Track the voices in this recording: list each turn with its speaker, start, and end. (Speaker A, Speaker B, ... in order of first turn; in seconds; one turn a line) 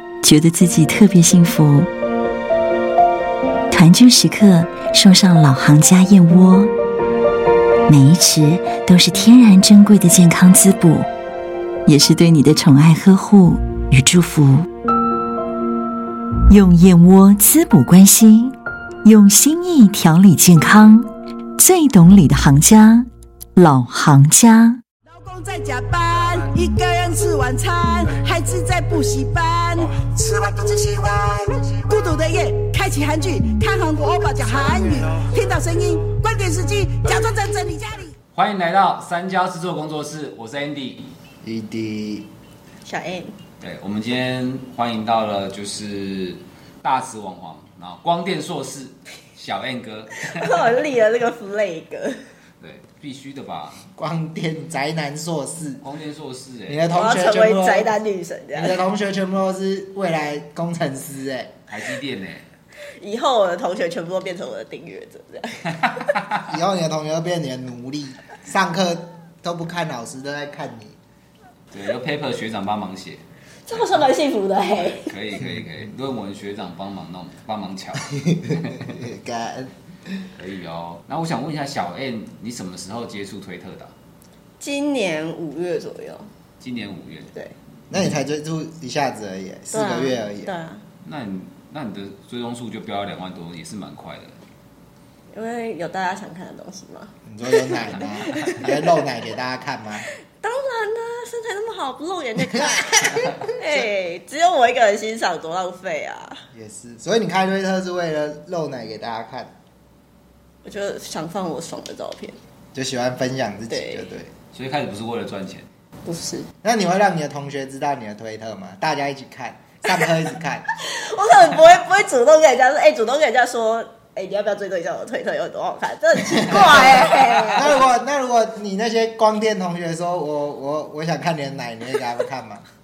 Speaker A: 0.2-1.9
Speaker A: 3.7-6.7
Speaker A: 7.9-11.1
Speaker A: 11.8-14.7
Speaker A: 16.5-21.1
Speaker A: 21.6-24.8
Speaker B: 25.1-38.1
Speaker C: 38.3-41.1
Speaker D: 41.4-42.3
Speaker E: 42.8-43.3
Speaker C: 43.6-50.8
Speaker E: 50.2-52.2
Speaker C: 52.6-53.8
Speaker D: 54.0-55.8
Speaker C: 55.8-56.8
Speaker D: 56.7-57.9
Speaker E: 56.9-58.8
Speaker D: 58.5-61.5
Speaker C: 61.7-62.4
Speaker E: 63.0-66.0
Speaker C: 65.7-66.5
Speaker D: 66.5-71.0
Speaker C: 71.7-74.1
Speaker E: 73.7-75.1
Speaker C: 74.8-78.9
Speaker D: 78.1-80.2
Speaker C: 80.3-83.9
Speaker E: 84.6-86.3
Speaker C: 86.6-87.3
Speaker D: 87.9-90.5
Speaker E: 89.7-90.8
Speaker C: 91.0-94.3
Speaker E: 95.3-98.9
Speaker D: 97.2-100.0
Speaker E: 100.4-106.4
Speaker D: 102.5-103.3
Speaker D: 106.5-109.5
Speaker E: 110.6-112.4
Speaker D: 112.7-114.3
Speaker E: 113.7-114.1
Speaker C: 114.5-115.7
Speaker E: 116.0-116.5
Speaker D: 116.6-120.7
Speaker E: 120.8-127.8
Speaker D: 126.3-132.6
Speaker C: 127.0-127.6